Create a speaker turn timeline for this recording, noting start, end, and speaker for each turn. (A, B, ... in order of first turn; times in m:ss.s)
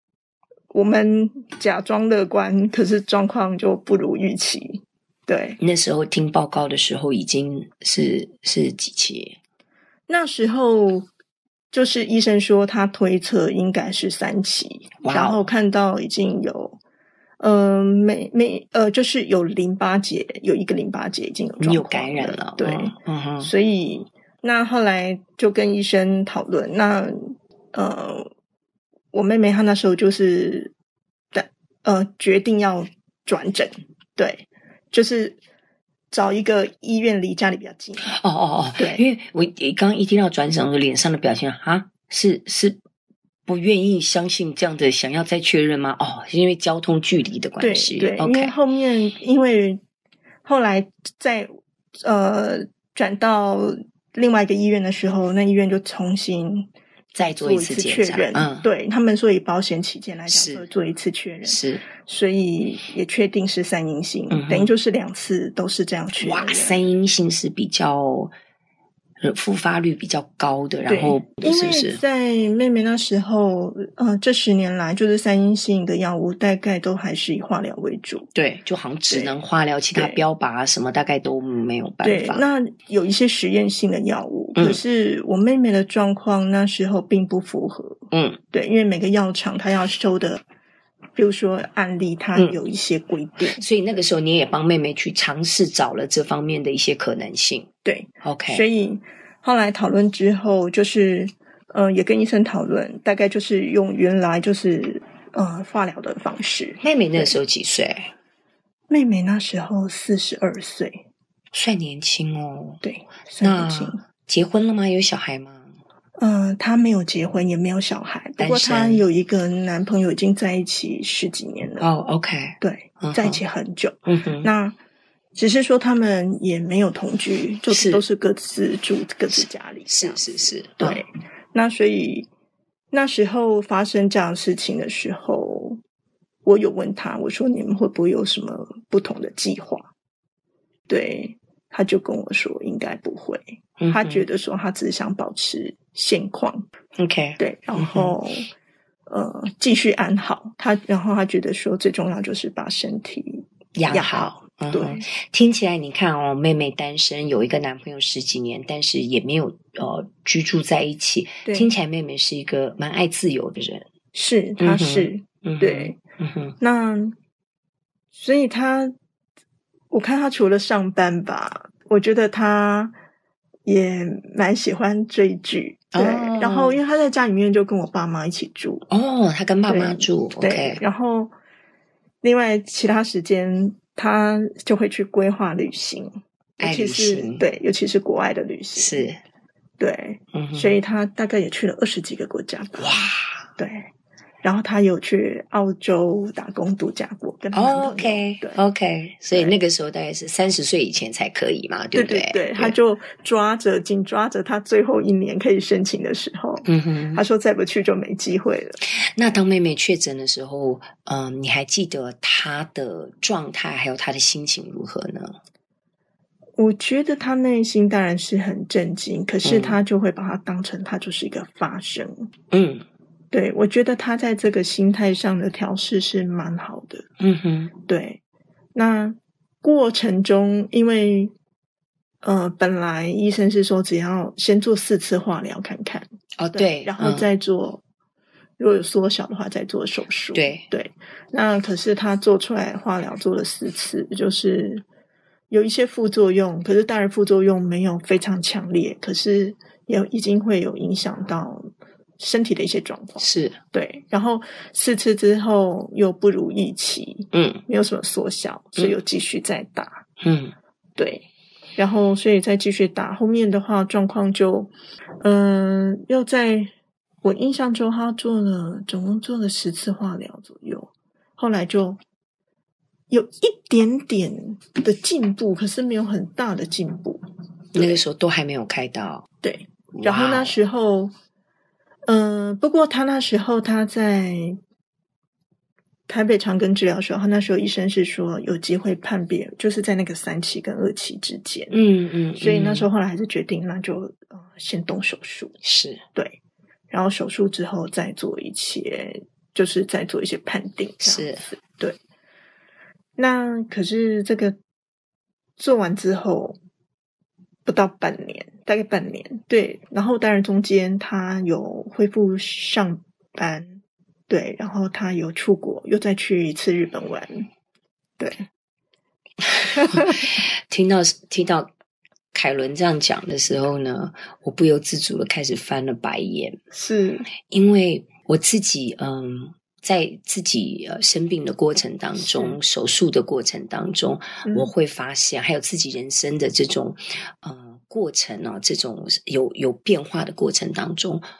0:00.7-0:05.6 A
0:05.6-0:09.4 B
0:10.1-0:11.1 A
0:11.7-0:16.8 A
0:15.0-0:15.4 B
0:17.4-0:28.3 A
0:21.6-0:23.5 B
0:29.1-0:30.7 A
0:31.3-0:35.4 A
0:36.1-0:38.1 A
0:38.0-0:42.8 B
0:38.8-0:39.0 A
0:43.4-0:48.5 B
0:47.6-0:49.8 A
0:50.4-1:06.8 A
0:57.1-0:58.7 B
1:00.3-1:00.7 B
1:01.4-1:01.8 B
1:04.3-1:04.7 B
1:06.2-1:08.3 B
1:09.2-1:12.0 B
1:10.9-1:18.3 A
1:18.3-1:22.4 B
1:19.1-1:19.3 A
1:19.9-1:20.2 A
1:22.0-1:28.0 A
1:24.6-1:24.8 B
1:28.1-1:28.4 B
1:28.5-1:30.4 A
1:31.2-1:33.6 A
1:33.6-1:37.7 B
1:37.8-1:47.4 A
1:38.2-1:38.6 B
1:46.8-1:48.1 B
1:48.9-1:51.0 A
1:51.5-1:52.8 B
1:52.8-1:54.0 A
1:53.4-1:55.7 B
1:56.2-2:01.9 A
1:58.4-1:59.0 B
2:01.8-2:03.4 B
2:02.6-2:04.8 A
2:04.0-2:04.5 B
2:05.3-2:10.2 A
2:07.7-2:08.0 B
2:09.3-2:11.0 B
2:10.8-2:12.3 A
2:12.9-2:15.8 A
2:16.4-2:19.9 A
2:20.9-2:26.6 A
2:23.8-2:24.2 B
2:27.0-2:28.1 B
2:27.4-2:28.5 A
2:29.1-2:35.1 A
2:33.7-2:43.9 B
2:44.1-2:46.0 A
2:44.6-2:46.6 B
2:46.6-2:47.1 A
2:48.1-2:48.9 A
2:49.9-2:52.9 A
2:53.6-2:58.8 A
2:55.9-2:56.8 B
2:58.9-3:00.8 B
2:59.7-3:01.3 A
3:02.2-3:09.1 A
3:06.6-3:07.4 B
3:08.8-3:09.2 B
3:09.8-3:13.9 A
3:10.3-3:10.8 B
3:12.8-3:13.5 B
3:14.4-3:18.6 A
3:17.5-3:22.8 B
3:19.3-3:19.6 A
3:21.9-3:28.8 A
3:26.6-3:27.2 B
3:29.1-3:35.4 B
3:36.6-3:42.3 A
3:39.4-3:39.8 B
3:42.5-3:42.8 B
3:43.3-3:47.0 A
3:47.2-3:47.7 B
3:47.9-3:48.2 A
3:48.7-3:51.3 A
3:52.2-3:57.8 A
3:56.4-3:57.3 B
3:58.6-4:04.8 A
4:00.3-4:00.6 B
4:05.5-4:20.0 A
4:13.2-4:13.6 B
4:17.3-4:17.6 B
4:20.2-4:20.5 B
4:21.0-4:21.2 A
4:21.8-4:26.7 A
4:27.2-4:32.0 A
4:33.1-4:37.2 A
4:37.7-4:38.0 A
4:37.7-4:39.3 B
4:39.4-4:41.1 A
4:39.9-4:40.6 B
4:42.1-4:44.6 A
4:46.1-4:51.7 A
4:51.7-4:52.9 B
4:52.4-4:55.5 A
4:55.6-4:56.0 B
4:56.9-5:02.0 A
5:01.0-5:01.5 B
5:03.2-5:04.6 A
5:05.6-5:06.6 A
5:07.6-5:17.5 A
5:18.2-5:18.4 A
5:19.4-5:21.7 B
5:22.3-5:26.6 B
5:26.7-5:27.2 A
5:27.5-5:41.2 B
5:32.2-5:32.6 A